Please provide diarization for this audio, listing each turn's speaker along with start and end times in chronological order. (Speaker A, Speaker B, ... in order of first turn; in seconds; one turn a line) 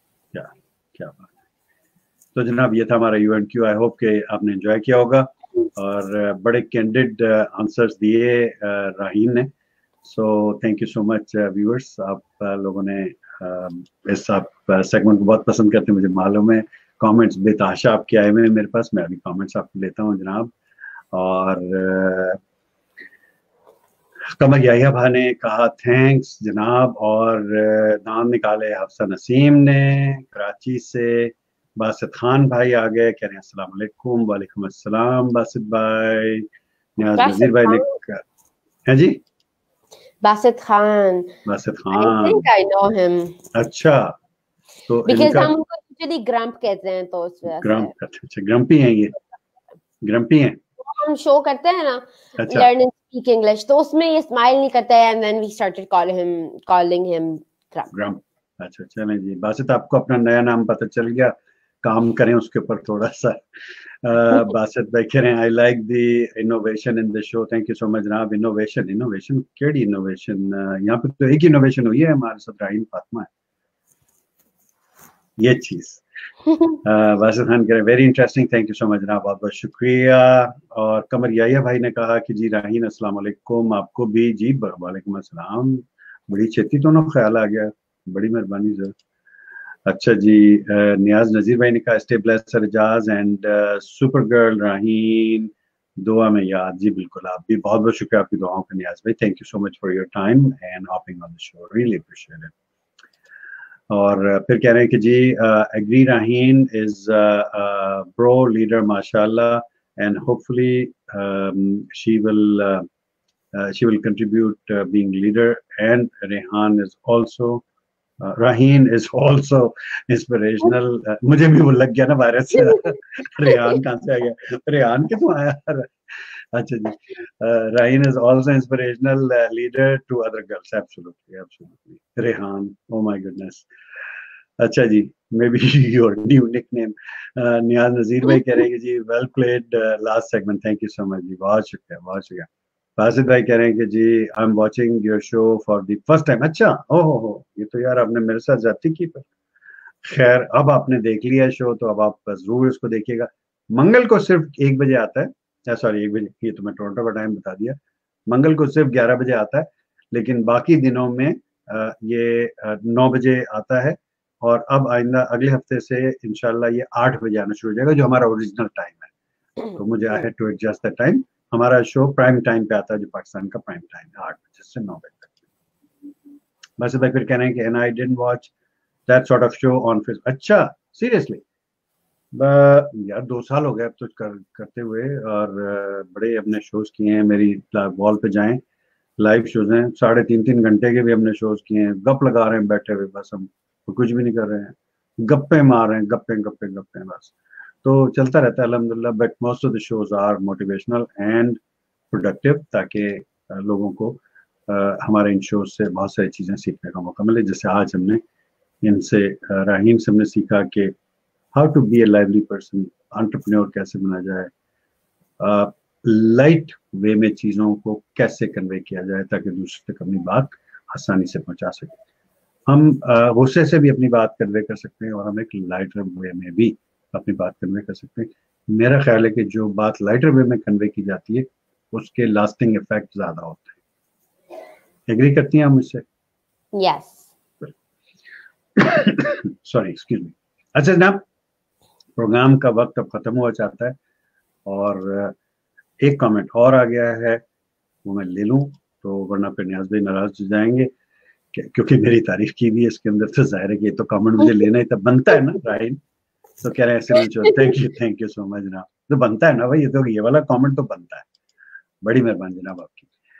Speaker A: 0.3-1.3
Speaker A: 2.3-9.5
Speaker A: 10.0-20.5
Speaker A: 21.1-22.4
Speaker A: 24.3-36.5
Speaker A: 37.0-38.2
Speaker B: 37.2-38.0
Speaker A: 38.9-39.2
Speaker B: 40.2-41.3
Speaker A: 41.4-42.5
Speaker B: 41.9-43.4
Speaker A: 43.5-44.1
Speaker A: 44.9-45.5
Speaker B: 45.1-47.9
Speaker A: 47.5-49.1
Speaker A: 50.0-50.6
Speaker B: 50.8-57.9
Speaker A: 52.4-52.7
Speaker A: 57.9-73.3
Speaker A: 75.4-76.0
Speaker A: 76.8-88.9
Speaker A: 89.9-102.5
Speaker A: 103.9-112.9
Speaker A: 113.5-117.6
Speaker A: 118.2-133.7
Speaker B: 122.6-123.8
Speaker A: 134.6-149.2
Speaker A: 150.0-157.8
Speaker A: 158.3-169.1
Speaker A: 169.8-175.3
Speaker A: 176.8-178.5
Speaker A: 179.1-181.4
Speaker A: 182.3-188.6
Speaker A: 189.2-201.6
Speaker A: 202.1-208.2
Speaker A: 208.8-210.9
Speaker A: 211.5-214.5
Speaker A: 215.4-222.0
Speaker A: 222.7-233.8
Speaker A: 235.1-236.0
Speaker B: 236.7-237.3
Speaker A: 238.8-241.2
Speaker A: 242.2-243.9
Speaker A: 244.7-245.3
Speaker A: 246.0-247.4
Speaker A: 248.0-250.9
Speaker A: 251.5-256.0
Speaker A: 256.6-261.2
Speaker B: 257.1-257.7
Speaker A: 262.0-263.1